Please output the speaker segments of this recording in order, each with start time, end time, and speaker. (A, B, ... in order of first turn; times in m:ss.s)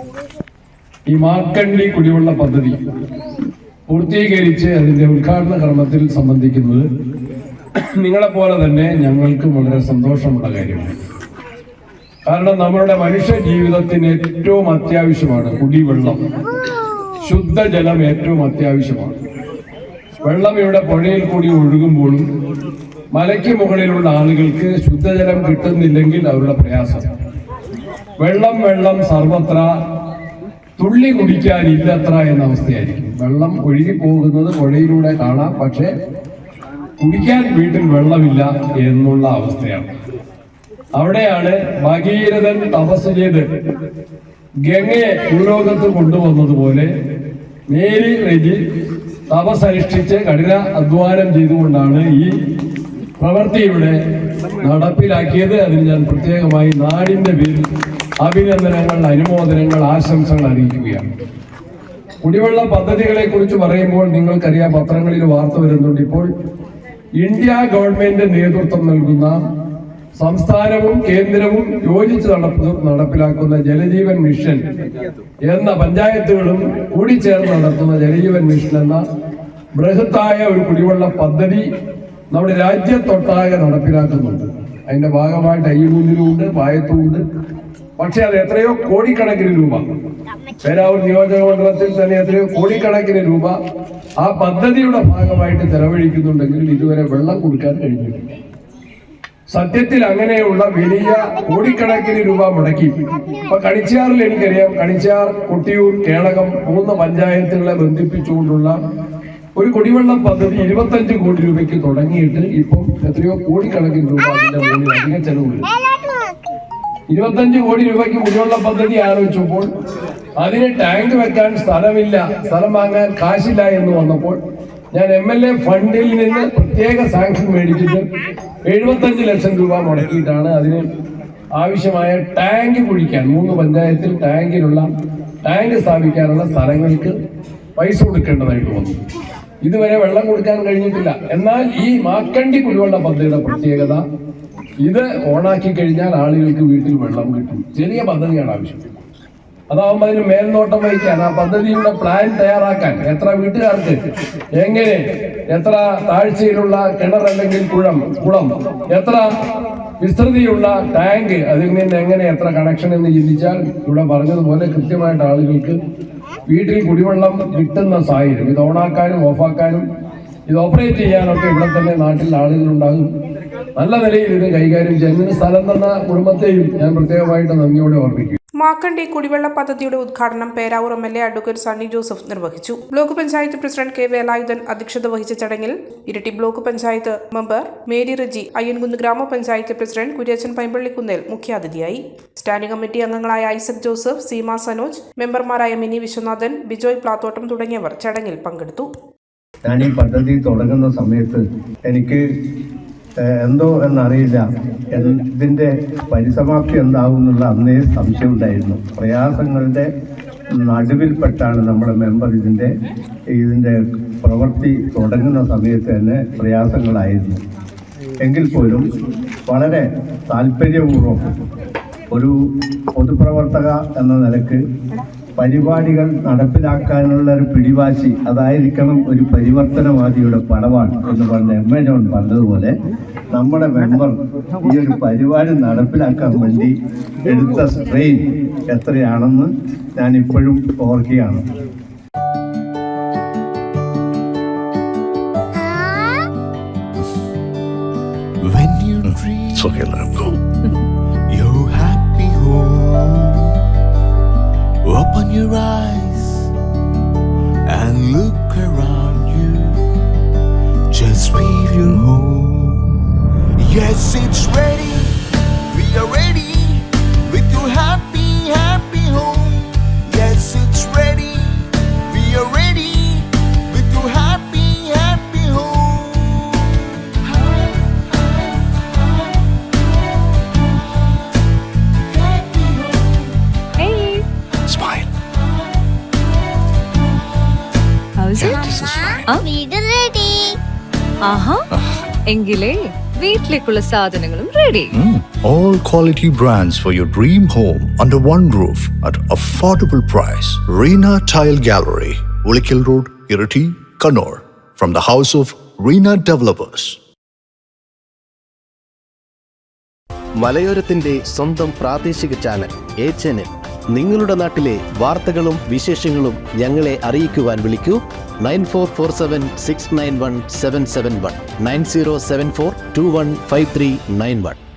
0:01.1-0:02.8 A
0:03.9-0:06.8 A
0:07.8-0:10.9 A
0:12.2-0:16.2 A
0:17.2-0:19.1 A
0:20.2-0:22.2 A
0:23.1-0:27.1 A
0:28.2-0:29.7 A
0:30.8-0:35.9 A
0:37.0-0:39.9 A
0:41.0-0:43.4 A
0:44.6-0:46.9 A
0:47.7-0:48.6 A
0:49.3-0:52.3 A
0:53.2-0:54.0 A
0:54.6-0:57.6 A
0:58.2-1:01.0 A
1:02.2-1:06.3 A
1:07.2-1:09.4 A
1:10.2-1:14.6 A
1:15.4-1:19.0 A
1:19.8-1:21.6 A
1:22.3-1:27.2 A
1:28.0-1:29.8 A
1:30.6-1:33.5 A
1:34.2-1:38.2 A
1:39.5-1:42.9 A
1:43.5-1:48.7 A
1:49.6-1:55.7 A
1:57.1-1:59.7 A
2:00.4-2:04.4 A
2:04.9-2:08.0 A
2:08.7-2:10.8 A
2:11.5-2:14.9 A
2:15.4-2:17.1 A
2:17.8-2:19.0 A
2:19.6-2:24.0 A
2:24.8-2:28.8 A
2:29.7-2:34.0 A
2:34.6-2:39.2 A
2:40.0-2:45.8 A
2:46.5-2:49.8 A
2:50.5-2:53.1 A
2:53.8-2:58.4 A
2:58.6-3:18.9 B
3:19.6-3:22.2 C
3:23.2-3:29.8 C
3:30.6-3:32.7 C
3:33.4-3:37.4 C
3:38.2-3:38.9 C
3:39.5-3:41.2 C
3:43.0-3:44.6 C
3:45.4-3:52.7 C
3:53.3-3:56.7 C
3:57.3-3:58.2 C
3:58.7-4:01.4 C
4:08.4-4:09.8 D
4:09.0-4:10.4 E
4:11.3-4:13.6 D
4:14.8-4:16.5 D
4:17.7-4:19.8 D
4:20.9-4:39.1 D
4:42.1-4:43.3 D
4:43.8-4:44.2 F
4:44.7-4:45.1 E
4:48.2-4:49.5 F
4:48.3-4:49.4 E
4:51.2-4:51.6 F
4:51.7-4:52.0 E
4:52.2-4:54.9 F
4:54.9-5:07.0 E
5:10.4-5:24.6 G